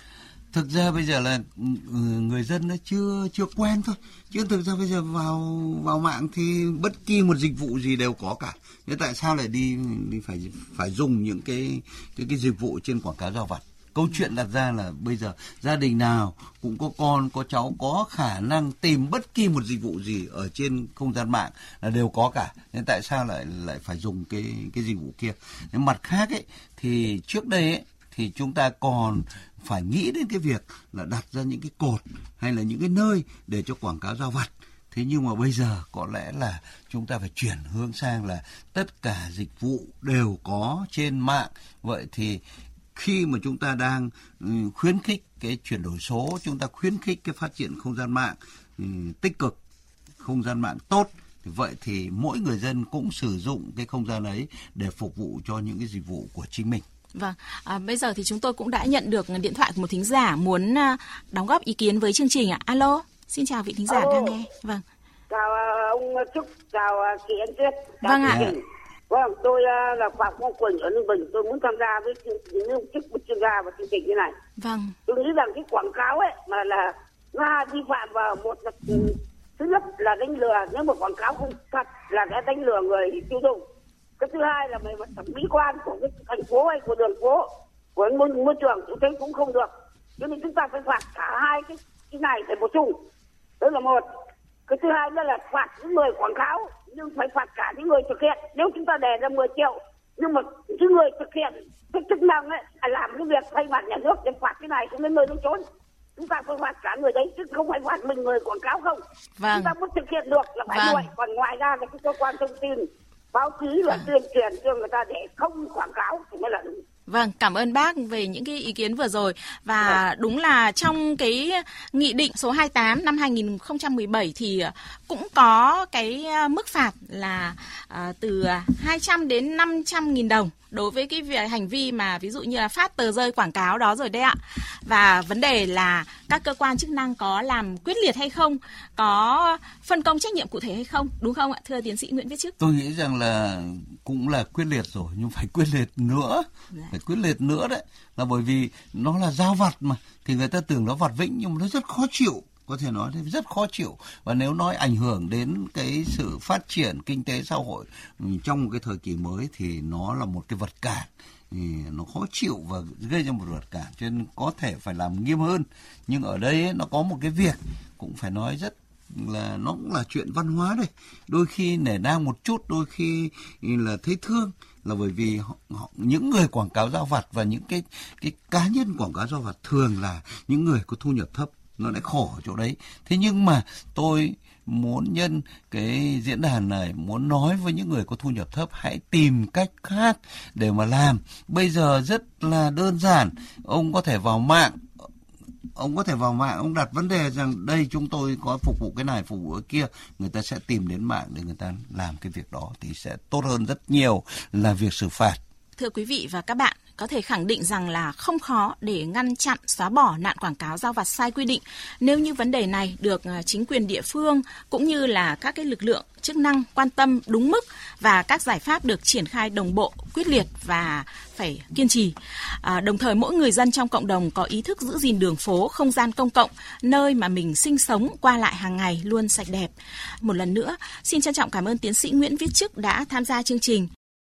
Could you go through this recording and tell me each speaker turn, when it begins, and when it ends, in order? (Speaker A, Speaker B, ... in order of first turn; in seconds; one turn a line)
Speaker A: 0.5-42.4
Speaker A: 42.9-49.6
Speaker A: 50.2-56.8
Speaker B: 57.1-64.8
Speaker C: 63.9-64.3
Speaker C: 65.3-74.3
Speaker B: 68.0-68.5
Speaker A: 68.3-68.5
Speaker B: 74.6-75.0
Speaker C: 75.1-83.6
Speaker C: 84.2-93.0
Speaker C: 93.6-94.0
Speaker C: 94.7-105.6
Speaker C: 106.2-109.0
Speaker B: 109.4-109.7
Speaker C: 109.5-116.8
Speaker B: 110.7-111.1
Speaker B: 117.1-142.5
Speaker A: 142.6-194.8
Speaker A: 195.8-205.4
Speaker B: 205.8-233.9